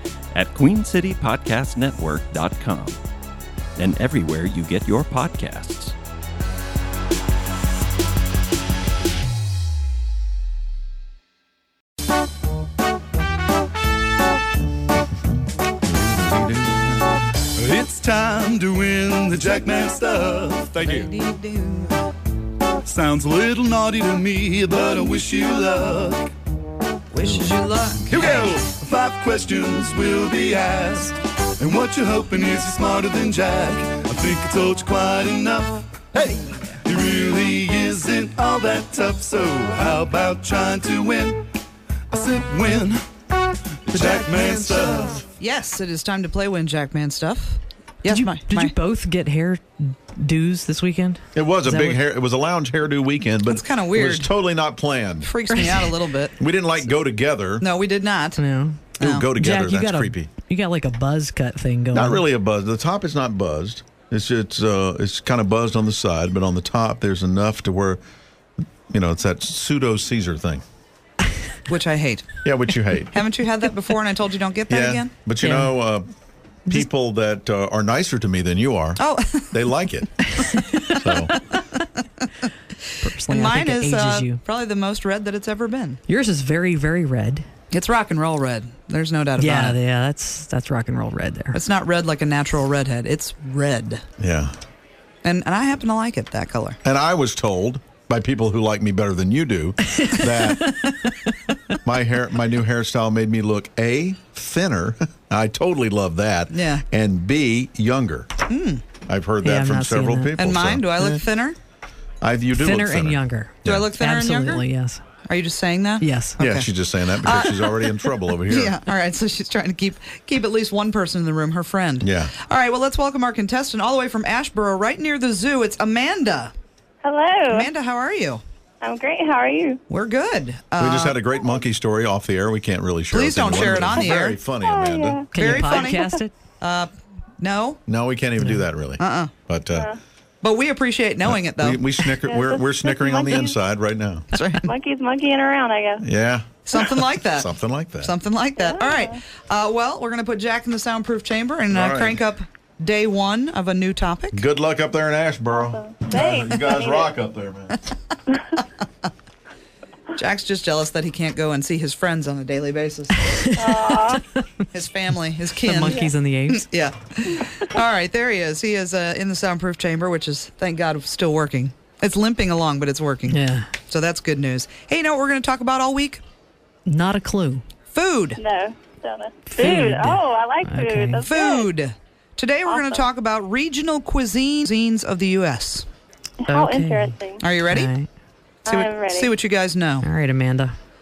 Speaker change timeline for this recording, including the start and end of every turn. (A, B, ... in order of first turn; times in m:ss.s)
0:00.3-0:03.0 A
0:03.8-0:05.9 A
0:16.2-0:16.8 B
0:17.6-0:21.1 B
0:20.8-0:22.0 C
0:22.8-0:26.3 B
0:27.1-0:28.5 C
0:27.3-0:27.5 B
0:28.1-0:41.5 B
0:42.1-0:43.1 B
0:43.8-0:45.2 B
0:43.9-0:44.4 D
0:44.0-0:48.7 C
0:48.0-0:52.0 E
0:51.3-0:55.3 D
0:53.5-0:54.3 C
0:55.2-0:56.4 C
0:55.5-0:55.9 E
0:56.4-0:57.6 D
0:57.6-0:58.4 C
0:58.4-1:02.2 E
0:59.0-0:59.3 C
0:59.0-1:00.3 D
1:01.9-1:08.0 D
1:08.9-1:10.6 D
1:11.7-1:12.4 C
1:12.4-1:13.3 D
1:13.1-1:15.1 C
1:14.7-1:16.1 D
1:15.4-1:15.7 E
1:16.7-1:20.2 D
1:19.0-1:19.6 C
1:20.4-1:21.1 E
1:20.9-1:21.3 D
1:21.8-1:22.2 C
1:23.0-1:24.4 E
1:23.2-1:26.0 C
1:26.1-1:27.4 E
1:27.7-1:29.8 C
1:29.4-1:31.6 E
1:31.5-1:34.0 C
1:34.2-1:34.6 D
1:35.2-1:36.8 C
1:36.8-1:40.8 D
1:40.0-1:40.5 E
1:41.8-1:48.3 D
1:46.5-1:46.8 C
1:48.5-1:48.8 C
1:49.1-1:51.2 D
1:49.4-1:50.4 E
1:50.4-1:51.6 C
1:52.2-1:53.9 D
1:52.5-1:55.0 E
1:53.6-1:54.6 C
1:55.3-2:06.5 C
1:56.0-1:56.4 E
1:56.4-1:58.8 D
2:02.0-2:02.3 D
2:07.0-2:07.7 F
2:07.5-2:08.4 C
2:08.8-2:09.8 F
2:09.9-2:11.2 C
2:10.8-2:15.2 D
2:13.1-2:14.4 C
2:14.5-2:16.1 F
2:15.3-2:16.3 E
2:15.3-2:17.8 C
2:17.9-2:19.9 D
2:18.4-2:18.6 E
2:19.0-2:19.3 C
2:19.7-2:20.0 F
2:20.4-2:22.0 C
2:21.2-2:24.3 D
2:22.2-2:23.6 F
2:24.3-2:24.6 C
2:24.6-2:26.0 F
2:26.0-2:28.1 D
2:26.6-2:27.5 C
2:28.0-2:34.4 C
2:28.6-2:29.2 F
2:31.7-2:32.2 D
2:34.3-2:37.8 D
2:35.5-2:37.1 F
2:40.1-2:43.4 C
2:43.2-2:44.4 E
2:43.6-2:44.2 F
2:44.7-2:56.2 C
2:45.6-2:46.7 E
2:45.8-2:46.1 F
2:53.3-2:53.7 E
2:56.8-2:57.6 E
2:57.9-2:58.4 C
2:58.4-3:01.7 F
2:59.5-3:01.2 E
3:01.2-3:05.9 C
3:02.7-3:03.0 F
3:06.4-3:07.4 F
3:06.5-3:08.1 E
3:07.4-3:07.9 C
3:08.6-3:09.3 F
3:08.6-3:10.0 C
3:10.0-3:10.8 E